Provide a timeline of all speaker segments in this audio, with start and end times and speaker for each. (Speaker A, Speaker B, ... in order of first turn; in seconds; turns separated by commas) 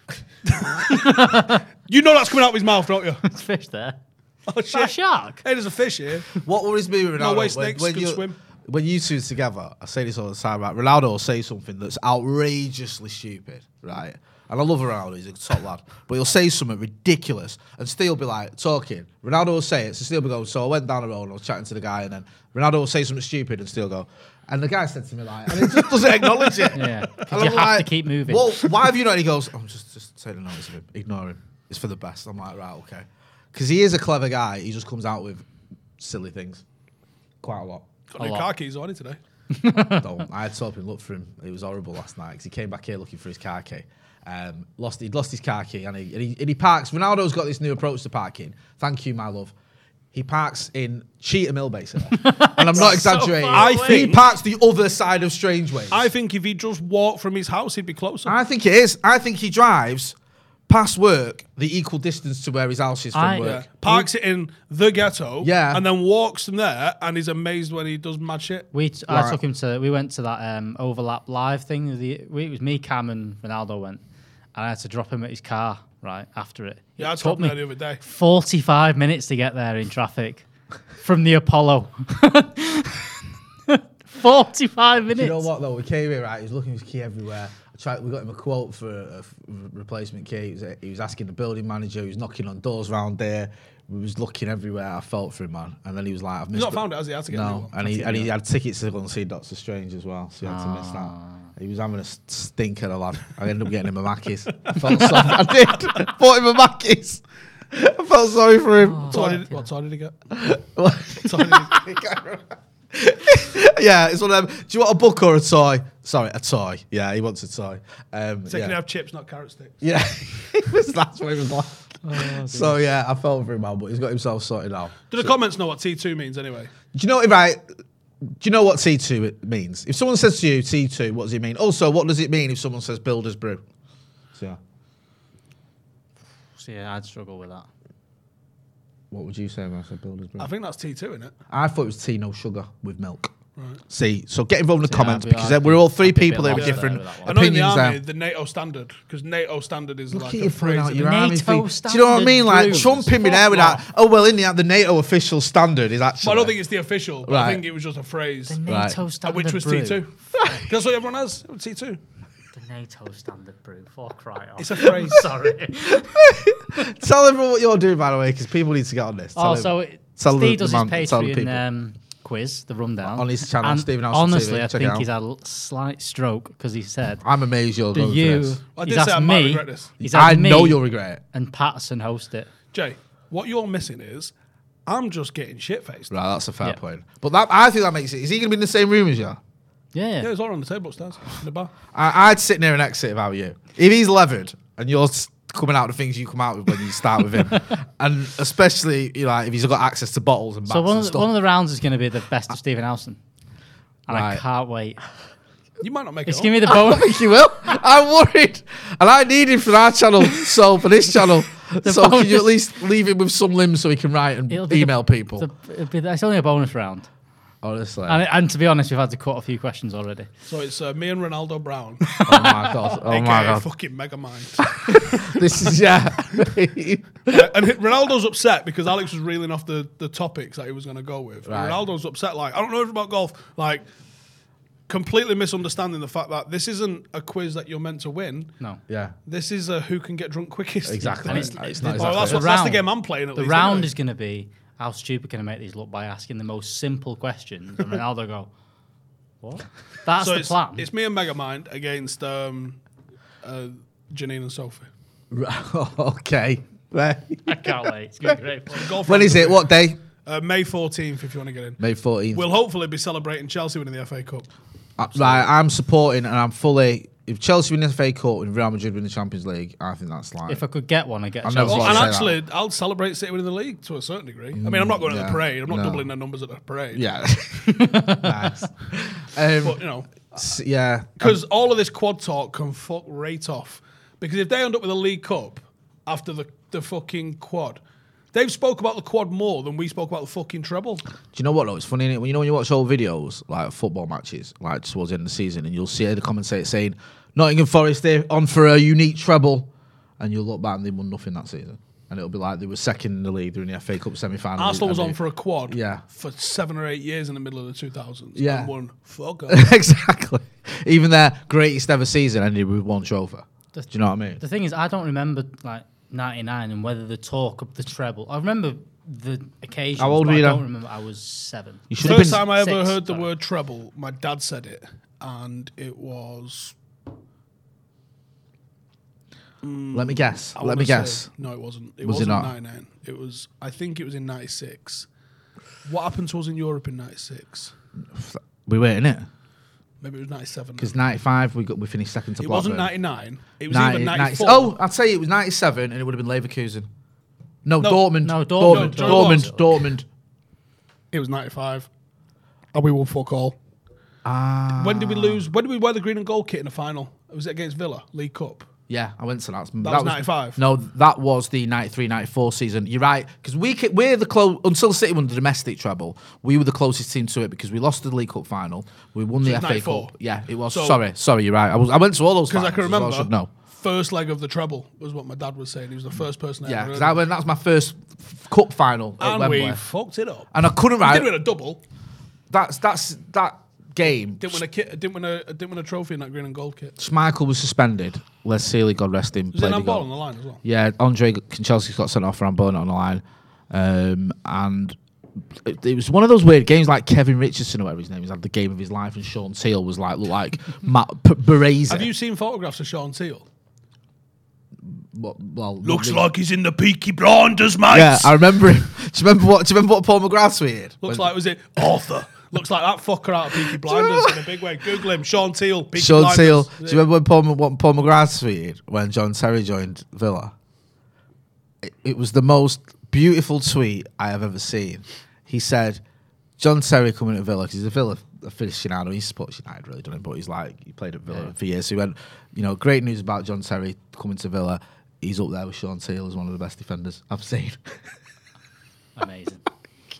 Speaker A: 0.5-3.2, Speaker B: 0.9-1.6, Speaker B: 3.2-4.0, Speaker A: 4.5-6.3, Speaker B: 4.7-5.4, Speaker C: 6.4-35.4, Speaker A: 7.2-8.4, Speaker A: 25.6-26.7, Speaker B: 26.7-28.7, Speaker C: 36.0-36.6, Speaker C: 37.4-37.9, Speaker A: 38.1-39.2, Speaker B: 38.2-38.5, Speaker B: 39.5-40.0, Speaker C: 39.7-49.5, Speaker C: 50.1-56.1, Speaker B: 52.1-54.2, Speaker A: 53.5-54.2, Speaker A: 55.9-58.4, Speaker C: 58.2-60.1, Speaker C: 60.7-64.0, Speaker B: 63.1-63.6, Speaker A: 63.4-68.7, Speaker C: 65.4-65.8, Speaker B: 68.7-74.0, Speaker C: 69.1-69.4, Speaker B: 74.5-80.5, Speaker A: 77.0-78.0, Speaker B: 81.0-85.5, Speaker C: 85.1-109.2, Speaker A: 96.5-98.2, Speaker B: 100.4-101.5, Speaker A: 104.6-105.3, Speaker B: 108.8-109.7, Speaker A: 109.1-110.2, Speaker C: 110.3-118.8, Speaker A: 111.2-111.7, Speaker A: 118.5-119.7, Speaker C: 119.8-125.3, Speaker B: 122.0-122.8, Speaker A: 125.1-126.7, Speaker C: 126.9-127.6, Speaker C: 128.3-133.6, Speaker B: 136.6-137.7, Speaker C: 139.1-140.5, Speaker A: 140.4-141.3, Speaker C: 141.5-143.3, Speaker C: 143.9-148.0, Speaker B: 144.8-147.4, Speaker A: 146.5-151.1, Speaker C: 150.1-156.6, Speaker B: 151.0-153.7, Speaker A: 152.7-153.8, Speaker A: 156.2-158.6, Speaker C: 157.2-157.6, Speaker B: 158.5-160.7, Speaker C: 158.6-159.0, Speaker A: 159.2-162.0, Speaker B: 162.5-166.2, Speaker A: 164.6-165.3, Speaker C: 165.8-171.6, Speaker B: 169.3-177.2, Speaker C: 173.0-175.1, Speaker C: 177.2-178.6, Speaker B: 177.9-182.5, Speaker A: 178.7-179.9, Speaker C: 180.0-181.2, Speaker A: 182.7-184.3, Speaker A: 184.8-186.1, Speaker C: 186.1-189.4, Speaker B: 189.9-190.3, Speaker A: 190.2-191.7, Speaker C: 191.9-201.3, Speaker B: 200.7-203.2, Speaker B: 204.1-205.0, Speaker C: 204.1-204.4, Speaker A: 205.8-206.6, Speaker B: 206.3-207.2, Speaker C: 206.7-215.5, Speaker B: 211.8-212.5, Speaker B: 214.5-217.1, Speaker C: 217.6-218.2, Speaker B: 218.1-220.3, Speaker A: 220.5-222.1, Speaker B: 222.1-222.9, Speaker C: 222.2-223.7, Speaker A: 222.9-225.1, Speaker C: 224.7-227.5, Speaker A: 227.3-233.9, Speaker C: 231.4-231.8, Speaker A: 234.9-238.5, Speaker C: 238.9-239.1, Speaker A: 239.2-243.9, Speaker C: 240.8-242.4, Speaker B: 241.2-248.5, Speaker B: 249.4-250.9, Speaker A: 250.2-252.8, Speaker A: 253.4-254.9, Speaker C: 255.3-258.4, Speaker B: 257.4-259.0, Speaker A: 258.7-259.7, Speaker C: 259.0-260.0, Speaker A: 260.2-261.8, Speaker C: 261.8-262.4, Speaker A: 262.3-264.5, Speaker C: 265.0-270.6, Speaker A: 265.1-265.5, Speaker B: 270.5-272.2, Speaker C: 271.4-272.4, Speaker A: 271.6-277.0, Speaker C: 274.5-276.1, Speaker C: 276.9-281.4, Speaker B: 277.6-278.5, Speaker A: 279.6-280.3, Speaker A: 281.2-287.8, Speaker A: 288.3-291.0, Speaker C: 291.3-306.0, Speaker A: 304.6-309.7, Speaker C: 308.4-308.7, Speaker C: 309.5-314.4, Speaker B: 313.7-323.2, Speaker C: 320.0-320.6, Speaker C: 321.9-322.4, Speaker A: 322.0-326.7, Speaker A: 329.6-335.1, Speaker C: 329.9-331.3, Speaker C: 332.0-332.5, Speaker A: 335.8-337.7, Speaker C: 338.1-339.3, Speaker A: 340.0-340.9, Speaker C: 340.8-342.9, Speaker A: 342.4-344.8, Speaker C: 343.7-346.9, Speaker C: 347.6-350.1, Speaker A: 347.8-349.5, Speaker B: 348.2-349.7, Speaker A: 351.1-351.9, Speaker A: 352.7-353.6, Speaker C: 354.2-355.4, Speaker A: 354.7-358.7, Speaker C: 358.9-373.5, Speaker A: 359.8-360.6, Speaker A: 369.4-370.1, Speaker A: 370.7-371.0, Speaker A: 372.5-377.2, Speaker C: 376.6-379.8, Speaker A: 379.2-380.5, Speaker C: 380.5-381.4, Speaker A: 381.0-381.8, Speaker C: 382.5-384.6, Speaker A: 384.4-386.9, Speaker C: 387.0-390.1, Speaker A: 389.5-390.6, Speaker C: 390.6-395.0, Speaker C: 395.5-402.1, Speaker A: 401.9-403.4, Speaker C: 404.8-406.3, Speaker A: 405.8-408.4, Speaker C: 407.9-411.3, Speaker A: 411.0-417.0, Speaker C: 413.8-414.4, Speaker C: 415.9-420.5, Speaker C: 421.8-426.0, Speaker C: 426.6-437.9, Speaker B: 439.2-439.6